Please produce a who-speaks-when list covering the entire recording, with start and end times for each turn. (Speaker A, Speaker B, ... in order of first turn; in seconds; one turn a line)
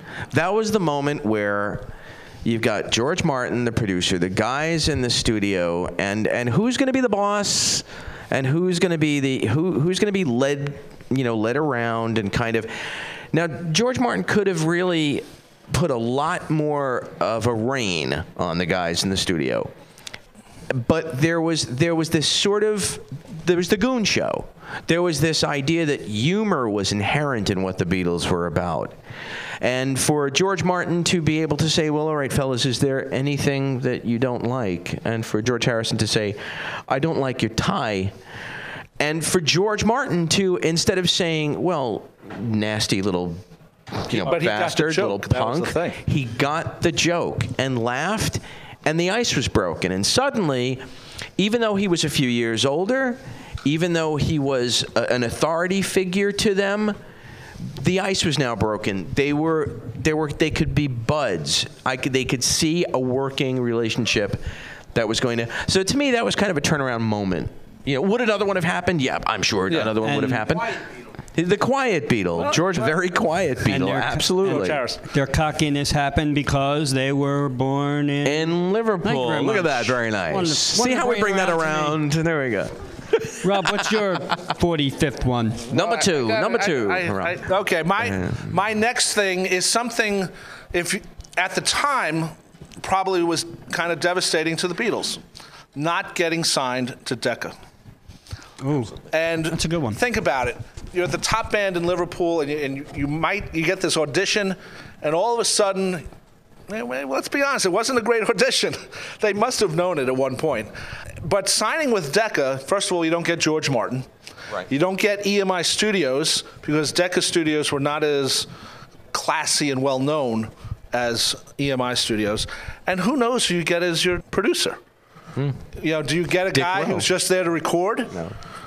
Speaker A: 0.3-1.9
Speaker A: 2.4-19.7
Speaker A: 20.7-29.0
Speaker A: 29.6-38.1
Speaker A: 39.0-43.4
Speaker A: 44.0-50.8
Speaker B: 44.1-46.0
Speaker A: 51.4-57.0
Speaker A: 57.6-70.8
Speaker C: 70.0-70.4
Speaker A: 71.3-74.8
Speaker B: 72.4-72.9
Speaker C: 73.7-82.0
Speaker B: 74.4-75.0
Speaker A: 78.2-84.0
Speaker C: 83.4-85.6
Speaker B: 85.7-95.2
Speaker A: 85.7-87.4
Speaker A: 88.0-88.5
Speaker B: 95.7-97.5
Speaker C: 98.6-99.0
Speaker B: 99.1-106.0
Speaker C: 99.5-100.0
Speaker B: 106.7-114.0
Speaker B: 114.7-118.5
Speaker B: 119.1-124.8
Speaker A: 125.3-125.6
Speaker B: 125.8-128.1
Speaker A: 126.5-127.1
Speaker A: 128.1-128.3